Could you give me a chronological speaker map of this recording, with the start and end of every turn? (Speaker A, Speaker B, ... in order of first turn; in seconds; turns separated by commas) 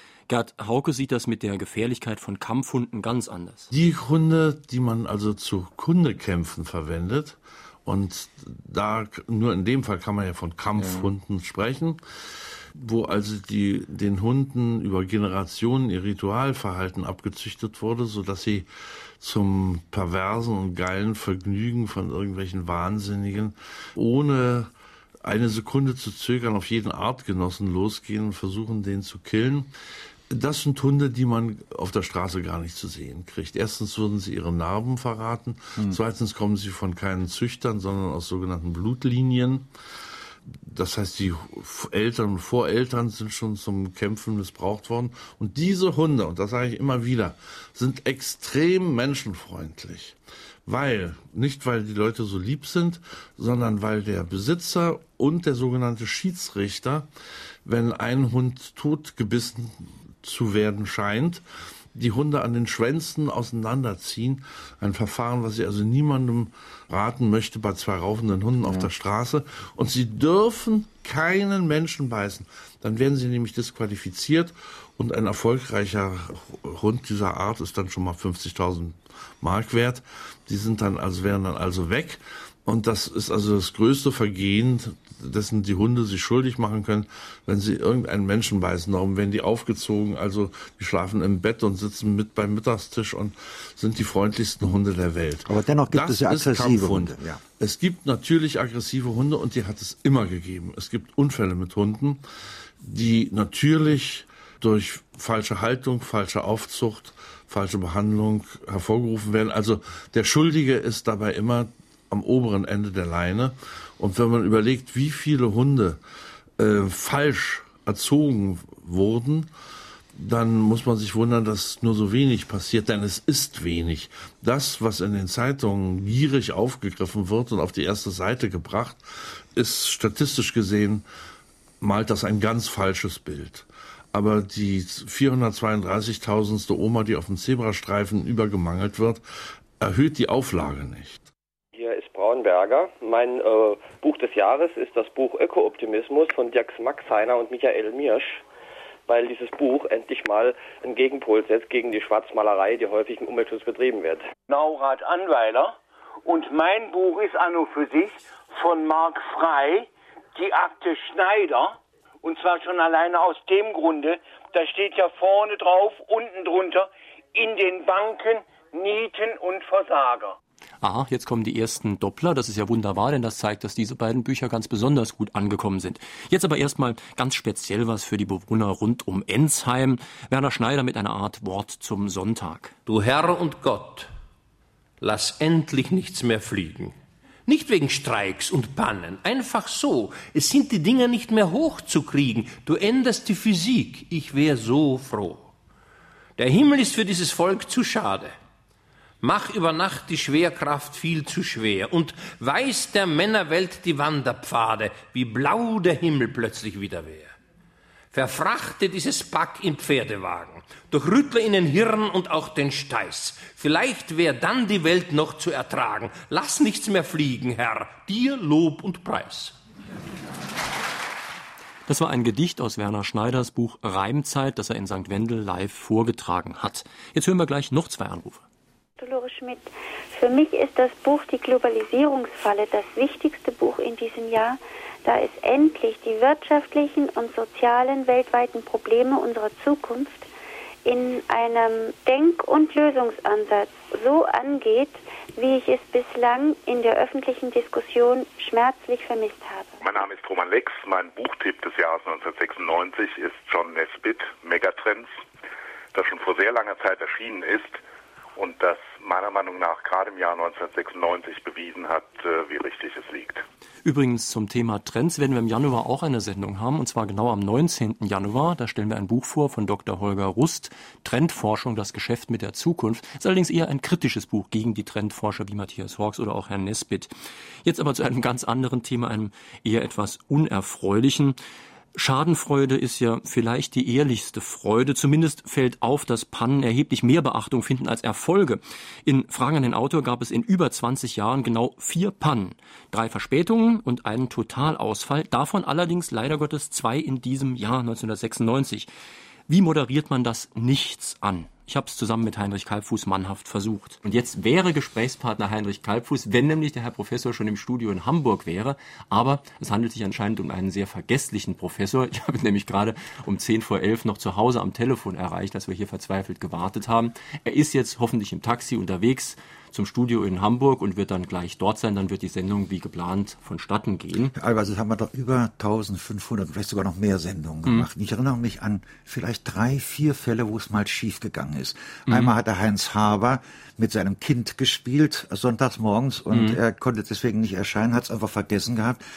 Speaker A: 0.3-3.7, Speaker B: 3.7-12.0, Speaker C: 10.8-11.1, Speaker B: 12.7-24.7, Speaker B: 25.2-29.7, Speaker B: 30.3-39.7, Speaker B: 40.5-57.1, Speaker B: 57.6-61.4, Speaker B: 61.9-102.2, Speaker C: 68.6-68.9, Speaker C: 95.5-97.4, Speaker B: 102.8-116.0, Speaker B: 116.6-119.5, Speaker B: 120.1-131.1, Speaker B: 131.8-139.2, Speaker B: 139.8-141.3, Speaker D: 145.2-148.2, Speaker D: 149.5-150.3, Speaker D: 151.0-153.7, Speaker E: 154.5-170.3, Speaker A: 170.8-182.7, Speaker F: 182.9-184.1, Speaker F: 185.0-186.9, Speaker F: 187.5-195.5, Speaker F: 196.4-198.3, Speaker F: 199.2-207.3, Speaker F: 208.1-219.6, Speaker A: 221.9-228.4, Speaker G: 229.0-240.3, Speaker G: 240.8-249.8, Speaker H: 249.8-255.2, Speaker H: 255.9-257.8, Speaker H: 258.4-263.4, Speaker A: 263.9-277.1, Speaker A: 277.6-281.4, Speaker A: 281.9-298.9, Speaker A: 299.5-324.3, Speaker C: 324.4-339.0, Speaker A: 336.3-336.6